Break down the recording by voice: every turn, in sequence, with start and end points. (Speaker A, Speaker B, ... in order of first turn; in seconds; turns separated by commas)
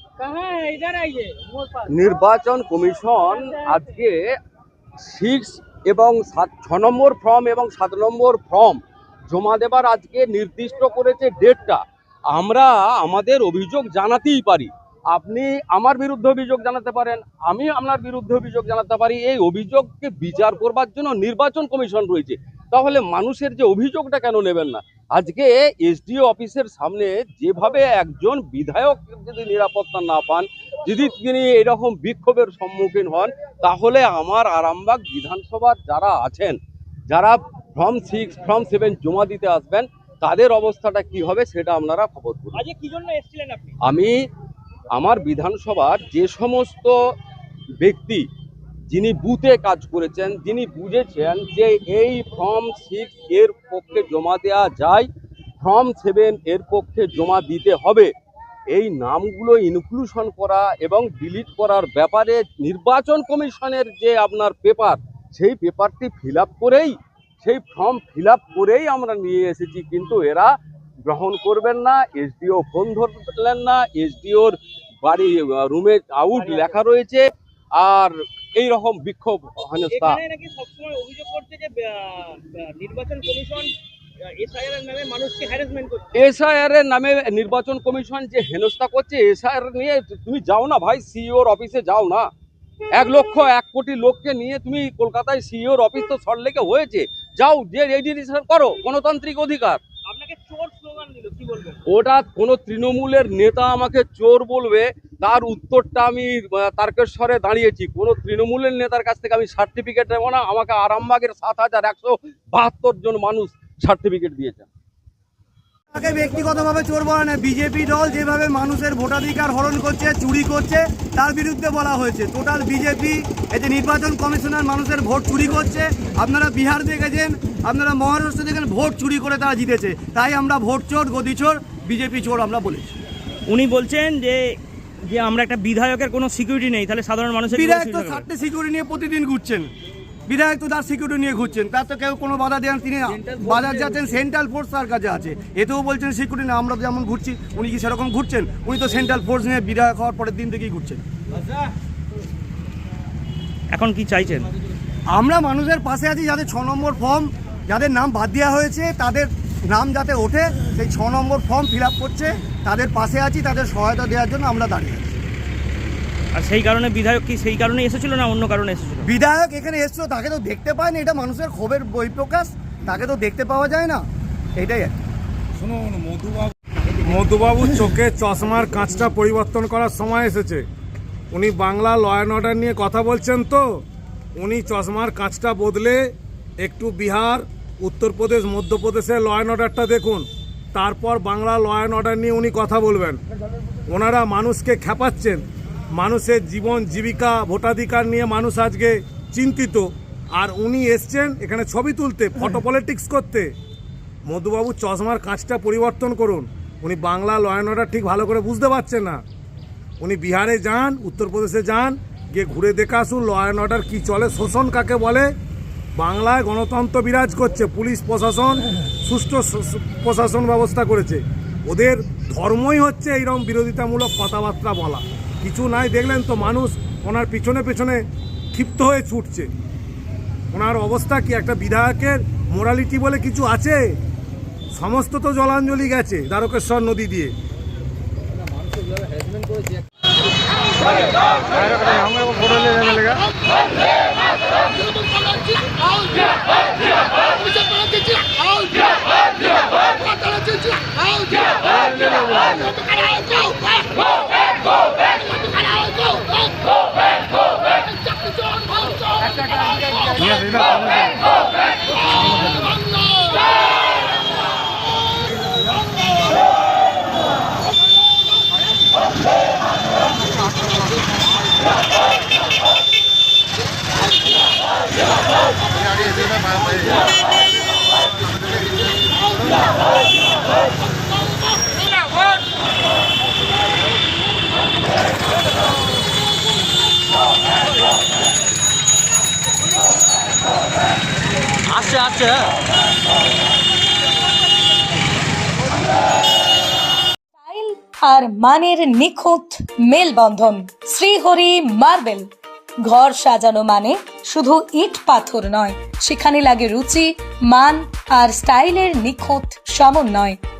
Speaker A: 0.2-1.7, Speaker B: 1.9-4.2, Speaker B: 5.0-36.6, Speaker B: 37.1-42.6, Speaker A: 42.5-43.8, Speaker B: 43.8-44.1, Speaker B: 44.9-46.9, Speaker B: 47.8-48.3, Speaker B: 48.9-55.1, Speaker B: 55.6-58.1, Speaker B: 58.7-70.5, Speaker B: 71.0-77.2, Speaker A: 76.3-76.8, Speaker B: 77.8-80.2, Speaker A: 79.9-83.7, Speaker A: 84.3-86.1, Speaker B: 86.2-92.3, Speaker B: 92.9-99.8, Speaker A: 100.0-101.8, Speaker B: 101.9-114.7, Speaker C: 115.9-133.0, Speaker D: 133.5-138.2, Speaker C: 137.5-139.7, Speaker C: 140.3-151.0, Speaker D: 143.2-143.9, Speaker D: 153.7-154.5, Speaker C: 155.1-165.3, Speaker D: 166.3-169.1, Speaker C: 169.0-174.9, Speaker E: 175.6-180.6, Speaker E: 181.3-183.8, Speaker E: 184.4-186.1, Speaker E: 186.6-193.2, Speaker E: 193.9-203.5, Speaker E: 204.3-209.2, Speaker E: 210.0-215.3, Speaker E: 215.9-229.5, Speaker E: 230.5-233.9, Speaker E: 234.7-237.3, Speaker D: 291.8-292.1, Speaker F: 297.4-302.3, Speaker F: 302.8-310.4